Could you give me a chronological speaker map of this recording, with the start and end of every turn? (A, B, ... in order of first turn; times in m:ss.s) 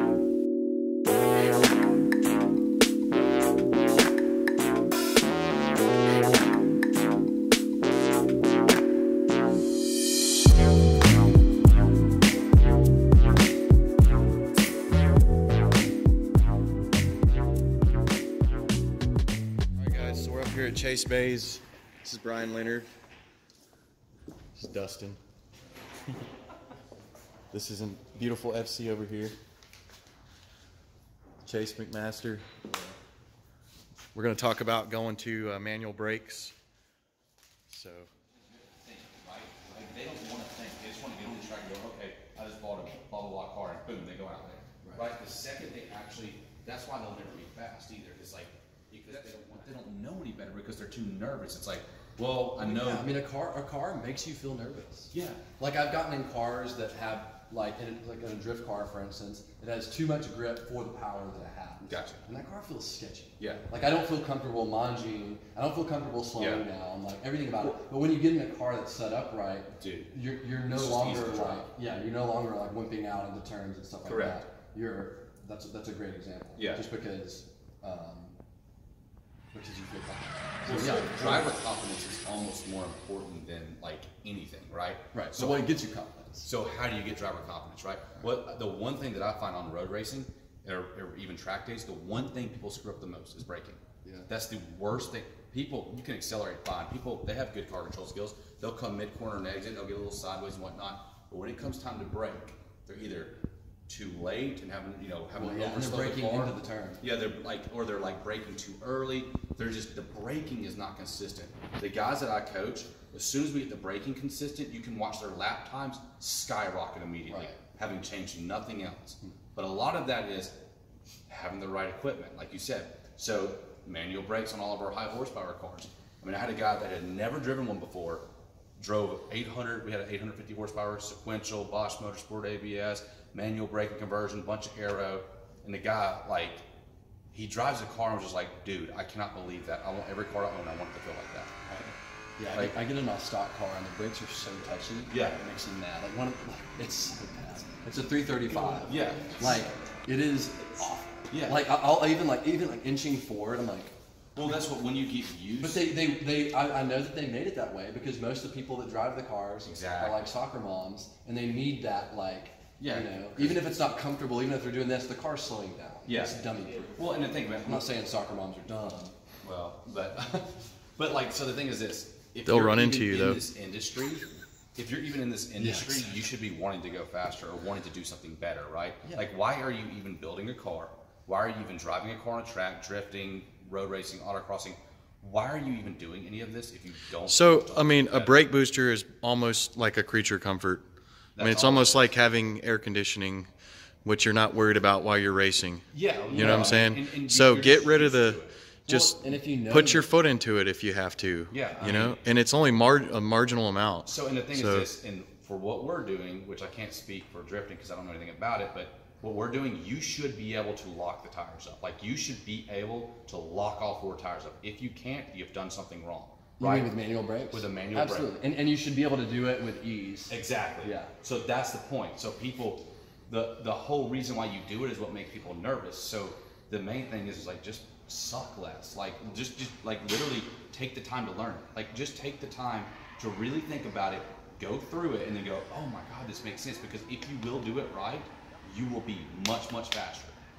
0:19.7-0:22.9 A
0:24.6-0:25.2 A
0:27.5-0:29.4 A
0:31.4-0:32.9 A
0:34.2-0:36.6 A
0:37.7-0:38.1 A
0:38.6-0:53.1 B
0:52.6-1:18.4 C
0:55.1-0:55.4 B
1:01.8-1:02.2 B
1:03.4-1:03.7 B
1:06.4-1:06.6 B
1:09.8-1:10.1 B
1:10.7-1:11.7 B
1:14.1-1:14.4 B
1:16.6-1:16.8 B
1:19.5-1:21.5 C
1:20.6-1:25.7 B
1:25.1-1:26.5 C
1:26.4-1:43.4 B
1:43.9-2:00.6 B
1:45.3-1:47.0 C
1:57.3-1:57.6 C
2:01.3-2:08.3 B
2:08.8-2:16.6 B
2:17.3-2:21.9 B
2:22.4-2:33.9 C
2:25.1-2:25.4 B
2:28.9-2:29.6 B
2:31.3-2:31.6 B
2:34.4-2:35.8 B
2:35.6-2:49.2 C
2:39.6-2:40.2 B
2:42.8-2:43.6 B
2:46.0-2:46.4 B
2:47.0-2:47.9 B
2:49.4-2:50.2 B
2:50.2-2:50.5 C
2:51.0-3:08.4 B
2:52.4-2:53.4 A
2:55.6-2:56.2 C
3:07.3-3:10.8 A
3:11.4-3:12.2 B
3:11.4-3:13.5 A
3:14.0-3:24.9 A
3:15.9-3:18.5 B
3:16.3-3:16.8 C
3:18.9-3:20.1 C
3:21.5-3:22.2 B
3:24.0-3:37.0 B
3:36.6-3:41.1 C
3:37.5-3:38.3 B
3:40.3-4:00.4 B